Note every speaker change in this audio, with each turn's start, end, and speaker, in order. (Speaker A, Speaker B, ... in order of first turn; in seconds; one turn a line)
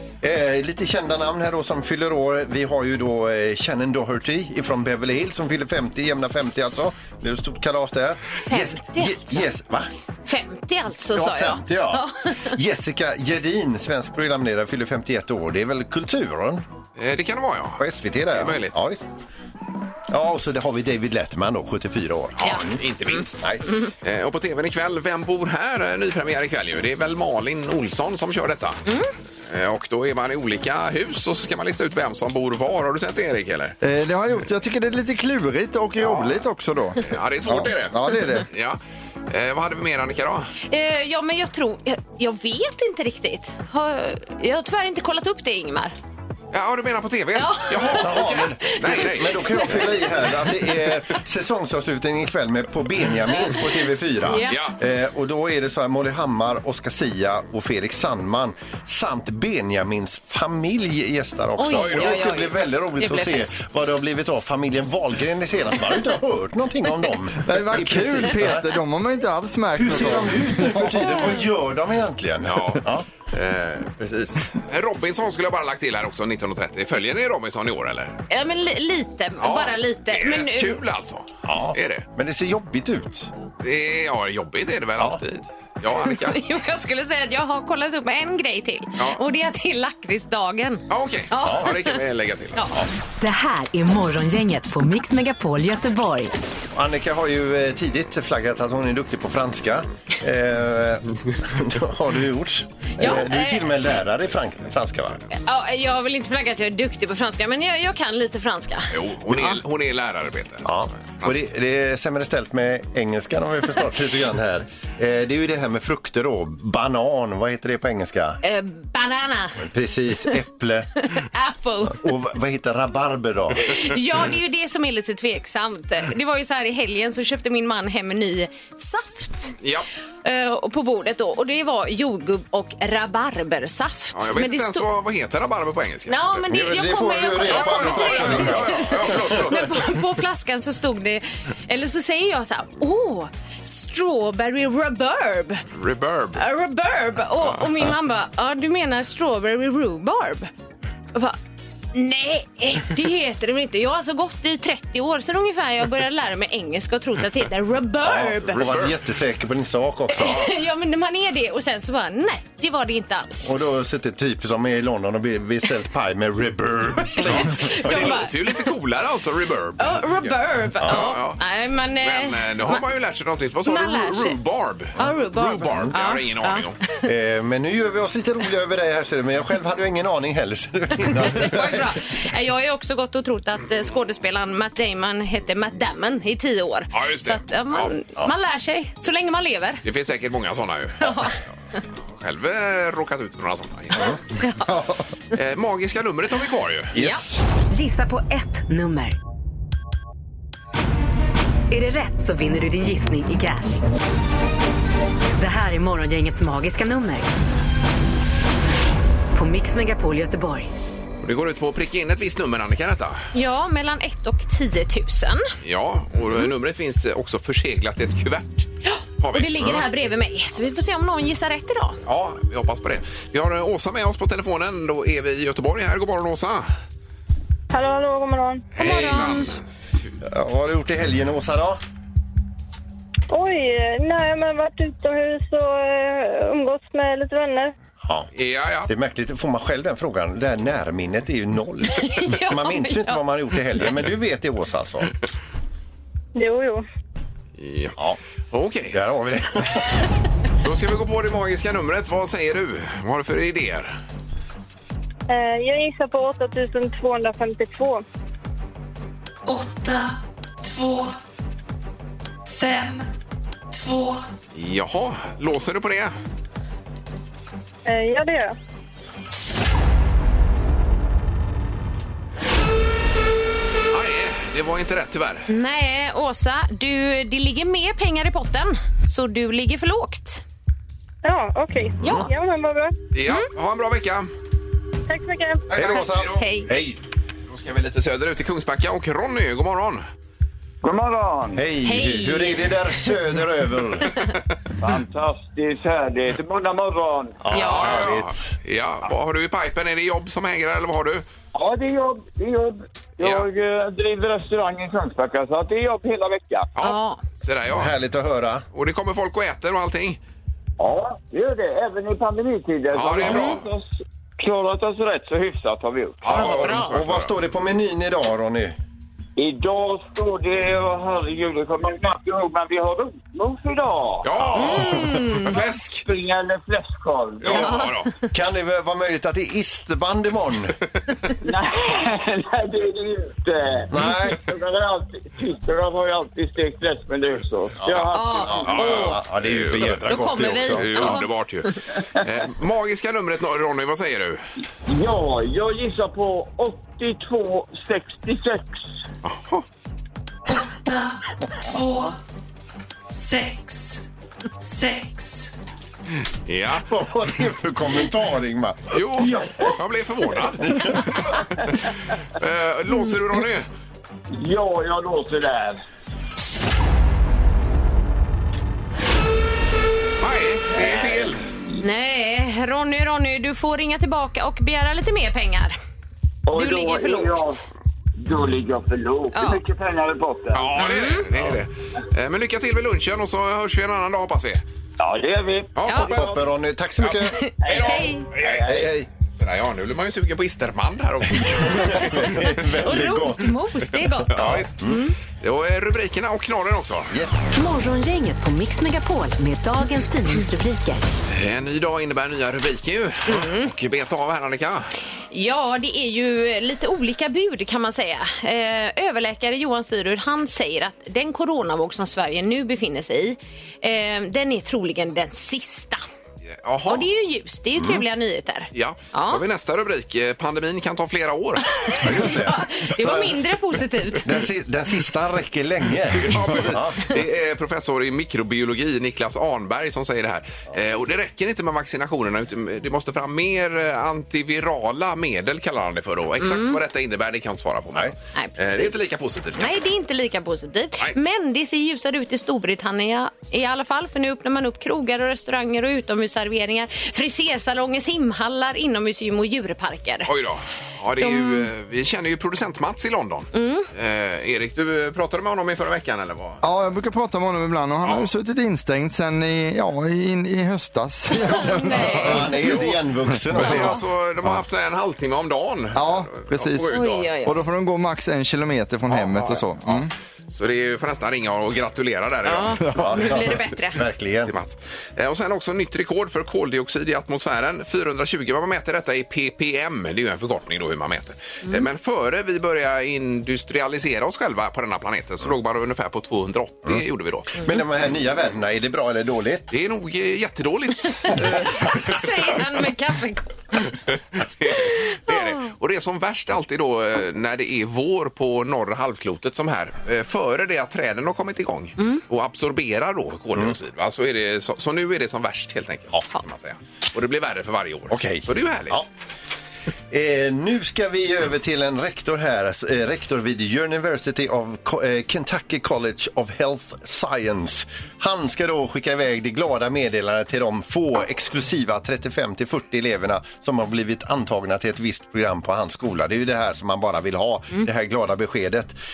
Speaker A: 0.2-9.9
Speaker B: 8.5-9.5
Speaker B: 10.2-12.6
Speaker A: 11.1-16.6
Speaker C: 17.0-18.8
Speaker A: 17.8-19.1
Speaker A: 20.1-22.8
Speaker C: 22.4-28.8
Speaker B: 22.4-23.9
Speaker C: 29.5-33.8
Speaker D: 33.8-38.5
Speaker C: 36.0-36.4
Speaker C: 37.0-40.5
Speaker B: 40.6-45.9
Speaker C: 46.5-49.9
Speaker B: 47.3-50.4
Speaker A: 47.9-68.7
Speaker B: 53.3-53.6
Speaker B: 54.2-54.6
Speaker C: 54.5-54.8
Speaker B: 61.6-63.5
Speaker C: 61.7-62.2
Speaker D: 67.4-71.0
Speaker A: 69.8-73.0
Speaker C: 72.4-78.2
Speaker B: 78.3-80.8
Speaker C: 79.4-82.1
Speaker A: 81.4-83.3
Speaker C: 83.6-86.4
Speaker B: 85.9-92.0
Speaker C: 90.9-92.7
Speaker E: 93.2-96.3
Speaker A: 96.7-105.2
Speaker B: 103.0-103.7
Speaker B: 105.3-109.6
Speaker C: 108.9-111.4
Speaker A: 110.6-118.4
Speaker B: 118.4-119.7
Speaker A: 119.6-120.9
Speaker B: 121.0-122.0
Speaker A: 121.9-123.8
Speaker B: 123.6-129.6
Speaker C: 129.6-129.9
Speaker B: 130.2-134.9
Speaker C: 134.1-136.4
Speaker B: 136.1-145.6
Speaker A: 136.5-139.4
Speaker C: 137.4-139.8
Speaker C: 145.7-146.4
Speaker B: 146.3-150.5
Speaker B: 151.9-158.7
Speaker A: 158.0-160.5
Speaker C: 158.6-158.9
Speaker B: 160.1-163.5
Speaker A: 163.4-168.1
Speaker B: 167.1-168.7
Speaker C: 167.2-170.0
Speaker B: 169.8-172.8
Speaker A: 170.8-171.2
Speaker C: 170.8-171.4
Speaker C: 172.0-176.8
Speaker B: 173.7-174.4
Speaker B: 174.9-177.0
Speaker A: 177.0-181.9
Speaker B: 181.2-189.8
Speaker C: 186.9-187.9
Speaker C: 189.8-191.3
Speaker B: 191.0-191.3
Speaker C: 192.1-194.2
Speaker B: 194.4-194.7
Speaker C: 195.3-197.0
Speaker B: 196.9-197.2
Speaker A: 196.9-197.4
Speaker E: 197.7-199.2
Speaker E: 201.7-203.8
Speaker E: 205.4-207.3
Speaker E: 209.3-210.7
Speaker C: 211.2-213.2
Speaker B: 213.3-215.5
Speaker C: 215.6-218.7
Speaker B: 218.8-222.0
Speaker C: 219.2-219.8
Speaker C: 222.1-226.7
Speaker F: 227.7-229.1
Speaker C: 228.7-229.6
Speaker B: 228.8-229.5
Speaker A: 230.2-231.8
Speaker F: 233.3-237.7
Speaker A: 238.0-238.3
Speaker C: 238.3-238.9
Speaker A: 238.9-245.1
Speaker B: 241.9-243.2
Speaker F: 246.3-246.8
Speaker C: 247.6-247.9
Speaker C: 248.5-249.0
Speaker A: 248.9-250.1
Speaker C: 250.6-253.9
Speaker F: 255.3-258.0
Speaker G: 259.4-261.2
Speaker G: 262.5-263.1
Speaker G: 263.7-264.3
Speaker C: 264.5-266.1
Speaker F: 267.9-268.5
Speaker C: 273.9-275.5
Speaker B: 275.5-280.4
Speaker F: 281.2-282.9
Speaker A: 282.0-282.3
Speaker C: 283.1-284.3
Speaker F: 285.1-285.7
Speaker A: 285.7-287.0
Speaker C: 285.7-286.4
Speaker B: 285.8-286.7
Speaker C: 287.5-290.0
Speaker H: 290.8-291.6
Speaker A: 291.5-294.1
Speaker B: 291.8-292.8
Speaker H: 294.8-297.4
Speaker A: 297.4-298.5
Speaker B: 297.5-298.0
Speaker C: 297.5-301.2
Speaker H: 301.5-306.7
Speaker C: 306.8-307.9
Speaker B: 306.8-307.2
Speaker A: 307.7-308.6
Speaker C: 308.7-310.2
Speaker H: 310.8-316.5
Speaker C: 312.9-313.6
Speaker B: 313.3-313.6
Speaker C: 316.2-317.3
Speaker A: 316.3-318.7
Speaker B: 316.4-316.9
Speaker H: 319.4-325.0
Speaker C: 324.2-326.0
Speaker B: 324.6-325.6
Speaker H: 325.5-327.8
Speaker C: 327.4-328.1
Speaker B: 327.5-328.1
Speaker A: 328.3-330.7
Speaker H: 331.4-338.7
Speaker A: 333.9-334.4
Speaker A: 337.8-341.2
Speaker B: 338.1-339.2
Speaker C: 338.6-341.7
Speaker B: 339.9-341.2
Speaker C: 342.2-344.4
Speaker H: 344.9-348.8
Speaker C: 349.2-349.6
Speaker G: 350.5-352.2
Speaker G: 353.1-354.1
Speaker G: 354.6-355.5
Speaker C: 356.4-356.9
Speaker A: 356.9-359.7
Speaker C: 358.9-361.4
Speaker A: 360.6-361.1
Speaker C: 362.4-363.6
Speaker H: 364.3-365.8
Speaker C: 370.2-371.4
Speaker H: 370.7-371.8
Speaker B: 371.8-375.7
Speaker H: 376.5-377.6
Speaker B: 376.5-377.6
Speaker H: 378.2-380.9
Speaker B: 379.3-379.6
Speaker C: 380.5-384.6
Speaker B: 380.8-381.3
Speaker H: 385.0-386.1
Speaker C: 385.7-386.4
Speaker B: 385.9-386.1
Speaker A: 385.9-387.4
Speaker C: 387.0-388.6
Speaker B: 387.3-388.3
Speaker H: 387.6-388.9
Speaker A: 388.4-389.1
Speaker C: 389.3-392.6
Speaker A: 391.4-393.5
Speaker B: 392.8-394.3
Speaker C: 394.2-394.8
Speaker A: 394.3-395.0
Speaker B: 394.8-395.1
Speaker C: 395.4-397.1
Speaker A: 397.1-397.4
Speaker E: 397.5-401.0
Speaker C: 401.3-404.9
Speaker B: 403.3-403.7
Speaker B: 405.3-416.0
Speaker C: 416.5-417.1
Speaker B: 416.9-419.4
Speaker C: 418.7-422.3
Speaker A: 421.9-423.4
Speaker B: 422.2-424.4
Speaker A: 424.2-427.1
Speaker C: 426.1-439.7
Speaker B: 436.4-436.8
Speaker B: 438.3-438.9
Speaker B: 439.6-450.3
Speaker C: 450.3-456.6
Speaker B: 451.2-451.7
Speaker B: 453.5-453.9
Speaker D: 456.6-462.5
Speaker C: 458.0-458.3
Speaker B: 461.4-462.5
Speaker A: 461.9-464.0
Speaker C: 462.4-463.0
Speaker C: 463.5-467.3
Speaker D: 465.9-470.1
Speaker B: 466.9-467.5
Speaker C: 469.1-473.3
Speaker B: 472.4-474.0
Speaker A: 472.9-474.5
Speaker C: 474.4-487.5
Speaker A: 487.6-489.7
Speaker C: 489.7-492.2
Speaker B: 491.3-493.5
Speaker C: 494.1-509.0
Speaker A: 508.1-509.1
Speaker A: 510.1-529.0